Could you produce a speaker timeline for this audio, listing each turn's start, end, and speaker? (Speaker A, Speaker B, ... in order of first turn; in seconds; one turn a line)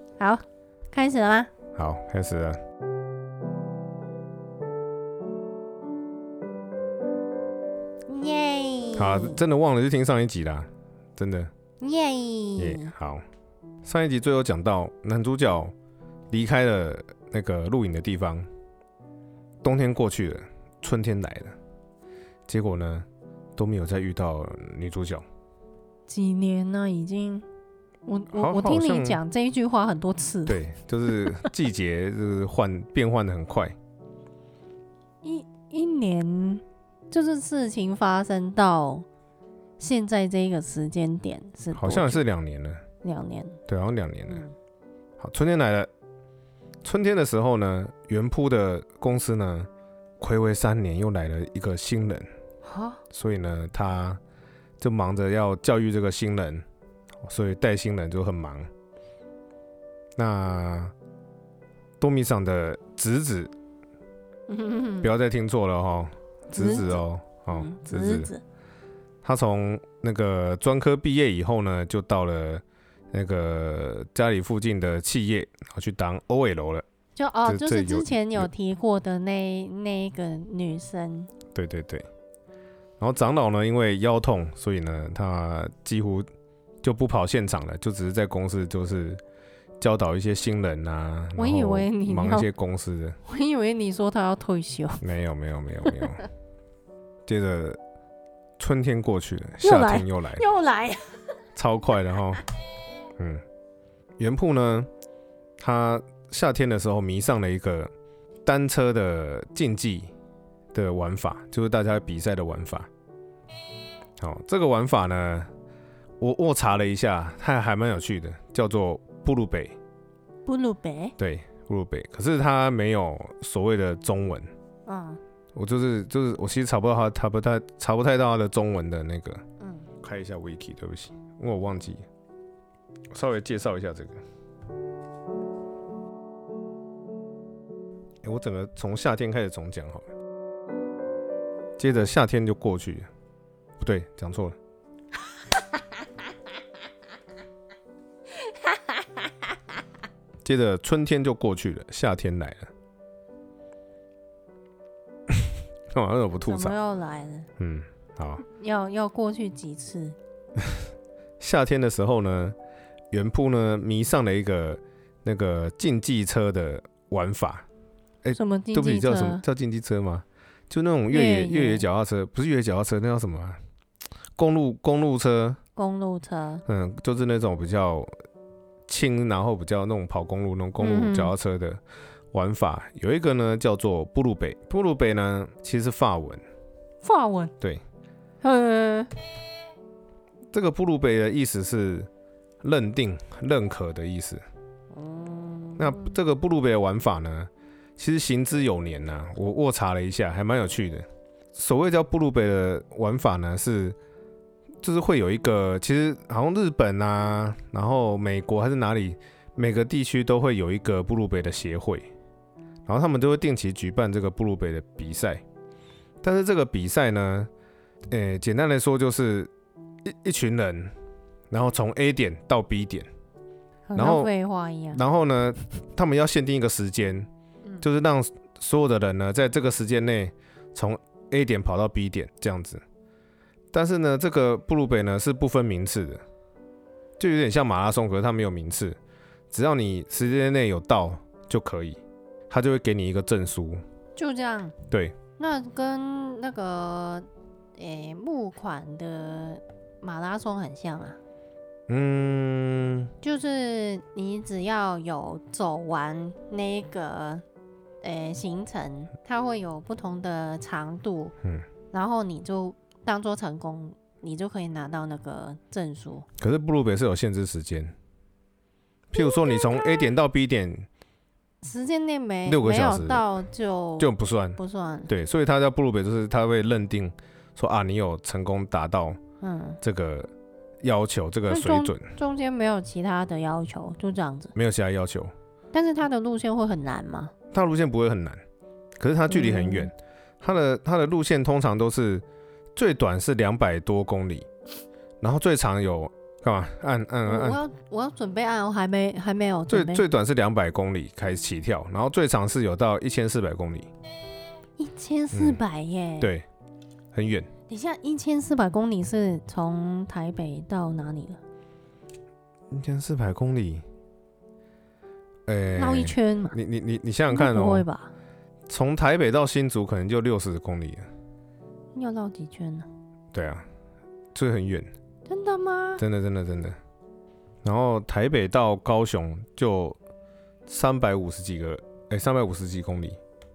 Speaker A: 0.2-1.5
Speaker B: 1.8-2.6
Speaker A: 8.1-9.4
Speaker B: 8.9-11.5
Speaker A: 11.8-12.9
Speaker B: 12.6-13.2
Speaker B: 13.8-15.7
Speaker B: 16.3-18.5
Speaker B: 19.6-21.6
Speaker B: 22.5-25.2
Speaker A: 26.1-27.5
Speaker A: 28.1-30.6
Speaker B: 28.3-29.2
Speaker B: 30.5-33.8
Speaker A: 35.2-39.0
Speaker A: 39.8-42.2
Speaker B: 41.7-42.8
Speaker A: 43.0-43.6
Speaker B: 43.7-44.4
Speaker B: 45.2-45.9
Speaker B: 46.8-49.7
Speaker B: 50.2-52.3
Speaker A: 52.6-53.0
Speaker B: 53.1-54.2
Speaker B: 54.8-56.6
Speaker B: 57.2-58.7
Speaker B: 60.2-60.9
Speaker B: 62.0-63.5
Speaker A: 64.5-65.1
Speaker B: 65.0-68.3
Speaker A: 66.5-68.4
Speaker B: 69.2-76.8
Speaker A: 77.2-81.3
Speaker B: 77.4-78.5
Speaker B: 81.5-82.1
Speaker B: 83.0-86.3
Speaker B: 86.8-89.2
Speaker B: 89.8-93.2
Speaker A: 91.4-92.5
Speaker A: 93.3-95.0
Speaker B: 95.0-96.3
Speaker B: 97.3-97.8
Speaker B: 98.6-100.5
Speaker A: 99.6-101.2
Speaker B: 101.5-102.4
Speaker B: 104.2-104.9
Speaker B: 105.6-107.9
Speaker B: 108.5-110.1
Speaker B: 110.7-112.9
Speaker B: 114.2-115.5
Speaker B: 116.2-119.8
Speaker A: 120.5-121.2
Speaker B: 121.2-124.5
Speaker A: 124.9-125.2
Speaker B: 125.5-129.4
Speaker A: 129.6-129.9
Speaker B: 130.0-132.0
Speaker B: 133.1-134.2
Speaker B: 138.2-140.1
Speaker B: 141.8-143.1
Speaker B: 143.8-144.6
Speaker A: 148.5-148.8
Speaker B: 150.4-152.7
Speaker B: 155.9-156.8
Speaker A: 156.5-157.5
Speaker B: 157.6-158.4
Speaker A: 158.4-160.2
Speaker B: 161.4-162.6
Speaker B: 163.1-167.7
Speaker B: 168.2-173.6
Speaker A: 168.3-169.4
Speaker A: 171.1-171.9
Speaker B: 174.4-175.6
Speaker A: 175.8-176.6
Speaker B: 176.7-178.1
Speaker B: 178.9-181.8
Speaker A: 180.8-181.3
Speaker B: 182.3-186.4
Speaker A: 187.0-187.5
Speaker A: 188.4-189.1
Speaker B: 190.5-192.1
Speaker B: 192.6-194.4
Speaker A: 194.9-196.1
Speaker B: 195.8-204.0
Speaker B: 204.8-212.1
Speaker B: 212.9-215.4
Speaker B: 216.2-217.5
Speaker B: 218.1-219.5
Speaker B: 220.1-220.9
Speaker B: 221.5-223.1
Speaker A: 223.9-225.0
Speaker B: 224.0-224.3
Speaker B: 224.9-227.3
Speaker B: 227.8-232.8
Speaker B: 233.7-236.2
Speaker B: 237.2-239.0
Speaker B: 239.5-243.8
Speaker A: 244.2-244.8
Speaker B: 244.9-245.2
Speaker A: 245.4-251.2
Speaker B: 251.9-253.1
Speaker A: 253.2-257.4
Speaker A: 258.0-261.4
Speaker A: 261.9-266.3
Speaker B: 266.4-267.9
Speaker B: 269.1-270.9
Speaker A: 269.2-269.8
Speaker A: 271.6-275.1
Speaker B: 272.5-273.2
Speaker B: 274.0-279.2
Speaker A: 279.4-279.8
Speaker B: 279.8-280.3
Speaker B: 280.8-282.1
Speaker A: 281.5-284.5
Speaker B: 284.6-285.3
Speaker A: 285.7-287.3
Speaker B: 287.5-288.4
Speaker B: 289.0-292.2
Speaker A: 289.3-289.9
Speaker B: 292.8-294.5
Speaker B: 295.2-297.6
Speaker A: 297.3-300.0
Speaker B: 299.7-303.9
Speaker A: 304.8-306.3
Speaker B: 305.3-305.6
Speaker B: 306.2-306.5
Speaker B: 307.1-307.5
Speaker A: 307.7-311.4
Speaker B: 312.7-313.8
Speaker B: 315.5-317.9
Speaker A: 315.8-316.6
Speaker A: 317.3-318.1
Speaker B: 318.7-321.0
Speaker A: 321.9-322.9
Speaker B: 323.3-323.6
Speaker B: 324.4-324.9
Speaker A: 325.3-326.0
Speaker B: 326.0-326.8
Speaker B: 327.6-330.0
Speaker B: 330.7-333.2